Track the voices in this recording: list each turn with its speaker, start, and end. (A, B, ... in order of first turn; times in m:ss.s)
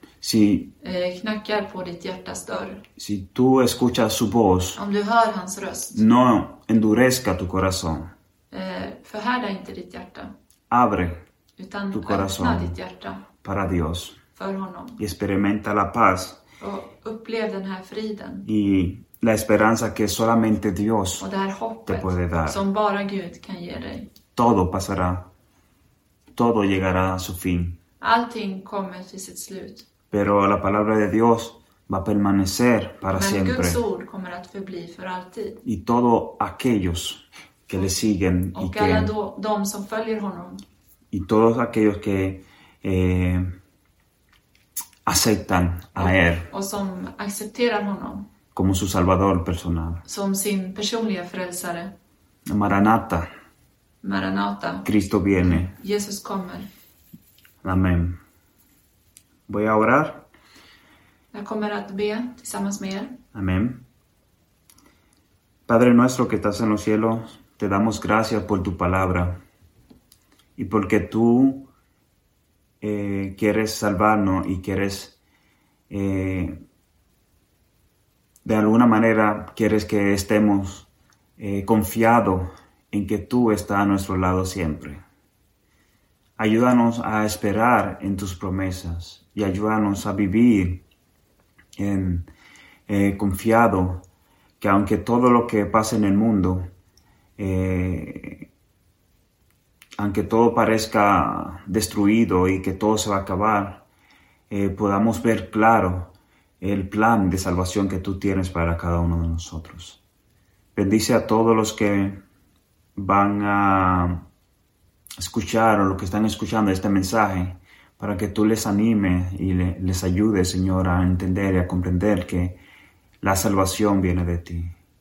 0:00.2-0:00.7 A
0:00.8-0:02.8 B
0:03.0-0:04.8 A
0:04.8-0:06.0 B
0:05.9-0:08.1 A
0:08.5-0:10.3 B
0:10.7-0:11.2 A
0:11.6-0:13.3 B
0:11.9-0:12.8 A
0:13.4-0:14.2 A
0:14.4-0:15.0 B
0:15.0-0:16.4 A
0:16.6-0:18.5 B
0:18.5-0:21.3 A
0:21.2-0:24.1 B
0:21.9-0:22.6 A
0:24.4-0:25.2 A
0:26.4-0:27.8 A
0:28.0-0:29.9 B
0:30.1-0:33.8 A
0:33.1-0:35.6 B
0:35.6-0:39.1 A
0:38.6-0:40.6 B
0:41.1-0:43.5 A
0:45.0-0:46.5 A
0:46.0-0:48.3 B
0:48.6-0:50.0 A
0:50.1-0:51.9 B
0:52.5-0:53.3 A
0:54.0-0:54.9 B
0:54.8-0:55.8 A
0:55.4-0:56.7 B
0:57.6-0:58.2 A
0:59.5-1:00.3 A
1:01.3-1:03.2 B
1:03.3-1:03.8 A
1:05.7-1:09.4 A
1:10.6-1:11.7 A
1:12.8-1:15.2 A
1:15.9-1:16.6 A
1:18.4-1:25.0 A
1:26.4-1:30.8 A
1:31.8-1:32.3 A
1:32.9-1:34.0 A
1:34.6-1:36.7 A
1:37.4-1:38.5 A
1:40.0-1:43.8 A
1:44.5-1:50.0 A
1:50.8-1:52.2 A
1:53.0-1:54.2 A
1:55.2-2:02.6 A
2:03.2-2:04.8 A